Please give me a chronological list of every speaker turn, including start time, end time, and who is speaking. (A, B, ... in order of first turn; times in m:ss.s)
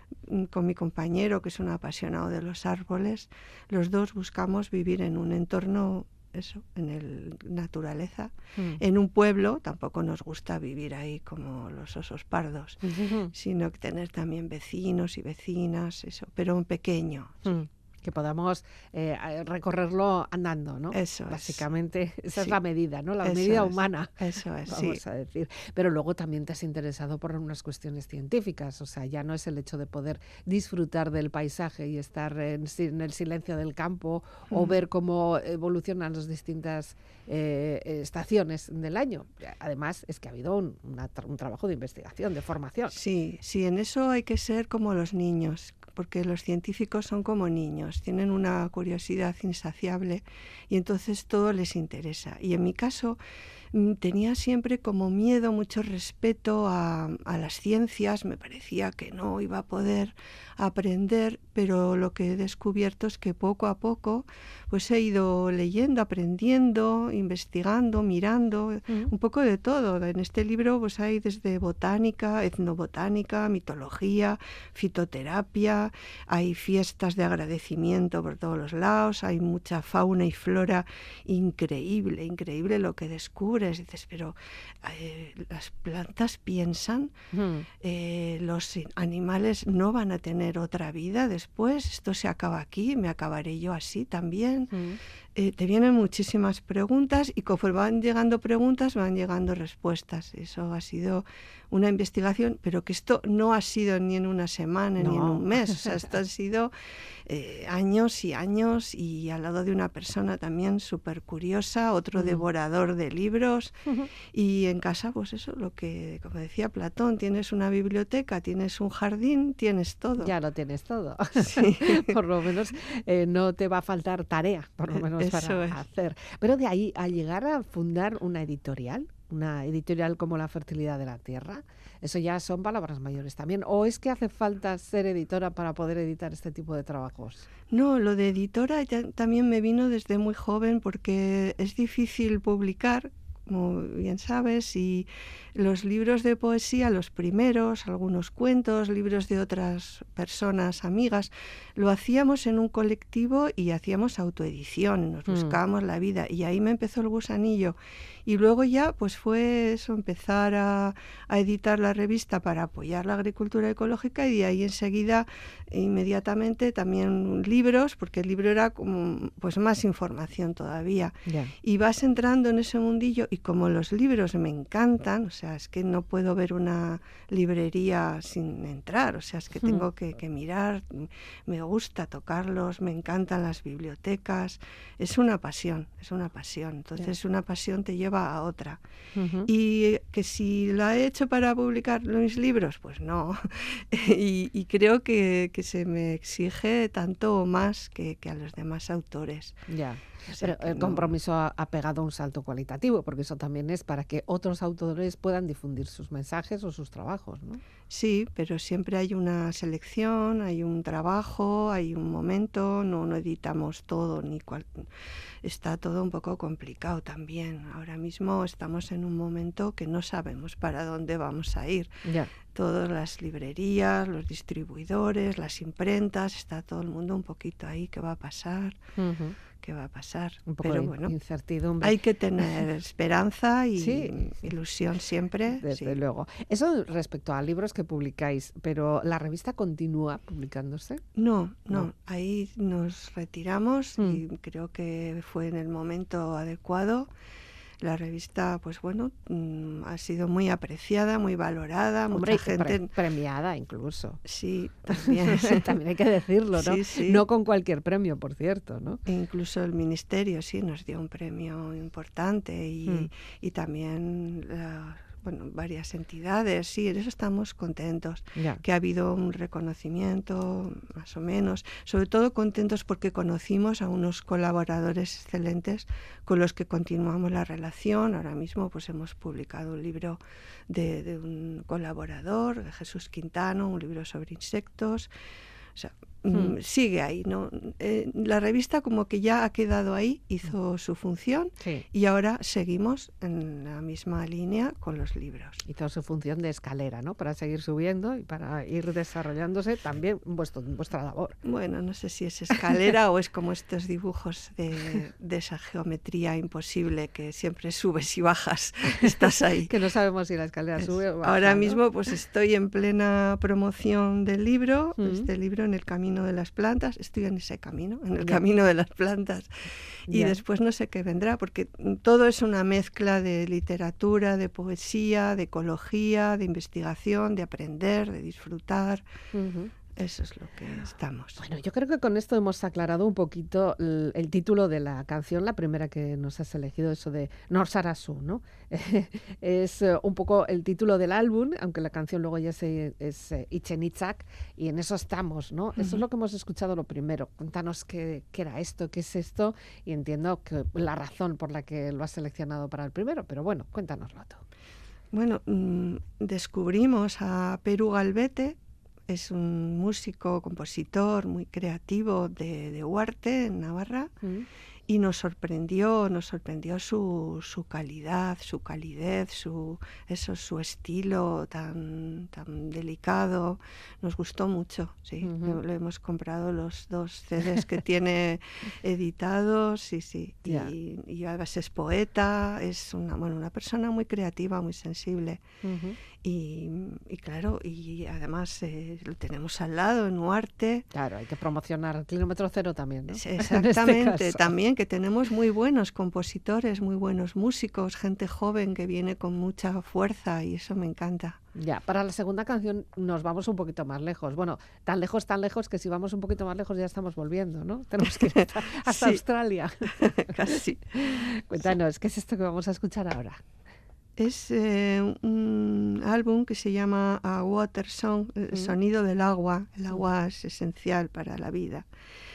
0:00.2-0:12.8 A
0:12.8-0:13.3 B
0:13.3-0:17.5 A
0:17.4-0:24.1 B
0:20.9-0:21.6 A
0:23.2-0:25.0 A
0:24.7-0:43.0 B
0:34.5-0:34.8 A
0:42.9-0:53.2 A
0:53.7-1:27.1 A
1:27.3-1:27.7 B
1:27.8-1:34.7 A
1:34.7-1:35.0 B
1:35.3-1:46.7 A
1:45.0-1:46.0 B
1:47.2-2:00.3 A
1:52.2-1:52.4 B
2:00.2-2:17.5 B
2:01.4-2:02.1 A
2:04.9-2:05.8 A
2:17.7-3:08.8 A
2:35.3-2:35.6 B
2:51.2-2:51.5 B
3:09.1-3:09.5 B
3:09.4-3:19.6 A
3:19.7-3:27.6 B
3:20.3-3:21.1 A
3:27.9-3:34.9 A
3:35.4-3:48.8 A
3:42.0-3:42.3 B
3:49.0-3:49.4 B
3:49.5-3:51.1 A
3:50.5-3:52.0 B
3:51.8-3:56.0 A
3:53.8-3:54.1 B
3:55.6-4:01.0 B
4:01.1-4:07.1 A
4:07.8-4:12.9 A
4:12.1-4:14.2 B
4:14.2-4:15.7 A
4:14.9-4:19.0 B
4:16.6-4:17.2 A
4:19.1-4:45.1 A
4:28.4-4:28.6 B
4:45.7-4:55.6 A
4:46.3-4:46.6 B
4:55.7-5:01.4 B
5:01.4-5:09.7 A
5:09.6-5:11.8 B
5:10.8-5:19.5 A
5:15.0-5:15.3 B
5:20.1-5:20.4 B
5:20.1-5:29.0 A
5:29.3-5:29.7 B
5:30.0-5:31.4 A
5:31.4-5:54.4 B
5:45.8-5:46.0 A
5:55.1-6:04.1 A
6:04.9-6:25.4 A
6:15.2-6:15.6 B
6:20.5-6:20.7 B
6:25.6-6:26.0 B
6:26.2-6:30.9 A
6:30.9-6:34.5 B
6:33.1-6:41.4 A
6:41.6-6:53.4 B
6:48.0-6:49.2 A
6:50.0-6:51.1 A
6:54.2-7:01.9 A